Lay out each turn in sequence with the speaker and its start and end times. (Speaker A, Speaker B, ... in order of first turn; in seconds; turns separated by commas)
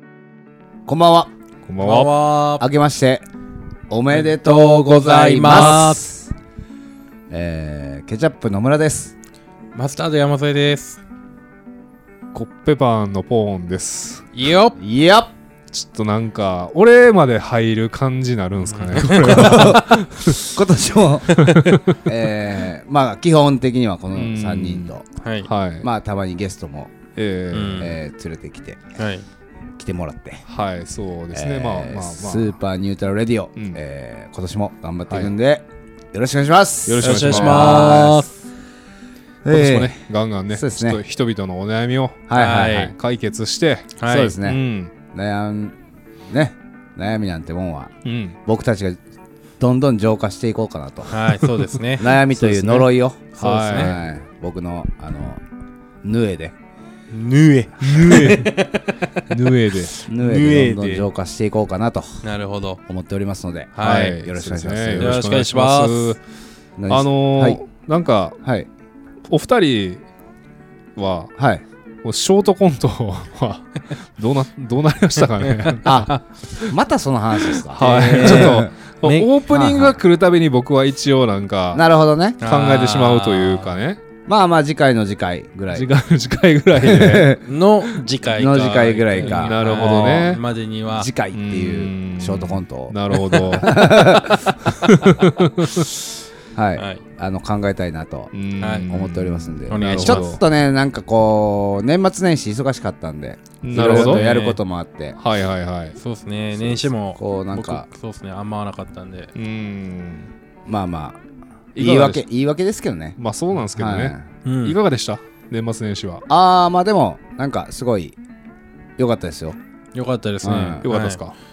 Speaker A: 0.8-1.3, Speaker B: 1.6-2.1, Speaker C: 1.8-2.7, Speaker A: 2.6-3.2, Speaker A: 3.9-6.3, Speaker C: 4.1-6.0, Speaker A: 7.3-9.1, Speaker C: 9.7-11.0, Speaker B: 12.3-14.3, Speaker C: 14.3-14.8, Speaker A: 14.8-15.3, Speaker B: 15.7-20.5, Speaker C: 18.7-19.6, Speaker A: 19.1-21.4, Speaker C: 21.3-21.8, Speaker B: 21.4-22.0, Speaker A: 22.0-25.0, Speaker B: 24.1-24.9, Speaker C: 25.2-25.5, Speaker B: 25.4-25.9, Speaker A: 25.8-27.0, Speaker B: 27.1-27.9, Speaker C: 27.5-27.9, Speaker A: 27.8-28.9, Speaker C: 28.9-29.2, Speaker A: 29.8-30.4, Speaker B: 30.5-32.5, Speaker A: 31.3-38.2, Speaker B: 36.9-38.1, Speaker C: 37.0-38.4, Speaker A: 39.4-39.9, Speaker B: 39.5-42.3, Speaker A: 40.5-41.0, Speaker A: 42.3-42.9, Speaker C: 42.3-42.9, Speaker B: 42.9-44.9, Speaker C: 44.0-44.4, Speaker A: 44.0-45.8, Speaker A: 46.3-47.9, Speaker B: 48.0-48.4, Speaker A: 48.4-49.0, Speaker A: 49.6-51.4, Speaker C: 51.1-52.8, Speaker A: 52.0-55.4, Speaker B: 52.4-52.9, Speaker B: 53.4-54.0, Speaker C: 53.4-53.9, Speaker A: 56.0-56.5, Speaker C: 57.1-59.2, Speaker B: 57.9-58.5, Speaker B: 59.3-59.9, Speaker C: 59.9-61.1, Speaker A: 60.1-62.2, Speaker C: 62.2-62.8, Speaker A: 62.9-65.2, Speaker C: 63.8-64.2, Speaker B: 63.8-66.2, Speaker C: 65.0-66.2, Speaker A: 66.8-67.6, Speaker B: 66.9-68.4, Speaker A: 68.4-68.7, Speaker B: 69.3-70.0, Speaker B: 71.0-71.3, Speaker A: 71.4-71.6, Speaker B: 72.0-75.9, Speaker C: 75.4-76.2, Speaker A: 75.8-76.1, Speaker A: 76.7-78.7, Speaker B: 77.6-81.8, Speaker C: 77.7-79.3, Speaker A: 79.5-80.0, Speaker A: 81.7-82.4, Speaker C: 82.4-83.7, Speaker B: 82.4-84.0, Speaker A: 84.2-85.9, Speaker B: 85.7-88.0, Speaker A: 86.7-87.4, Speaker C: 87.4-91.1, Speaker A: 88.3-90.4, Speaker B: 89.2-90.4, Speaker A: 90.9-94.5, Speaker B: 91.3-95.8, Speaker A: 96.5-98.3, Speaker C: 96.8-97.0, Speaker B: 98.3-100.4, Speaker C: 98.6-98.9, Speaker A: 98.9-105.2, Speaker C: 99.7-100.3, Speaker B: 103.6-104.3, Speaker C: 103.7-104.6, Speaker B: 105.2-106.0, Speaker C: 106.0-109.3, Speaker A: 106.5-107.8, Speaker B: 109.3-110.3, Speaker A: 110.7-111.2, Speaker B: 111.7-112.2, Speaker A: 111.8-113.2, Speaker B: 113.2-116.2, Speaker A: 113.7-114.2, Speaker C: 114.4-114.8, Speaker A: 116.3-118.2, Speaker A: 119.0-119.6, Speaker C: 119.9-121.2, Speaker A: 120.4-120.8, Speaker B: 120.8-121.3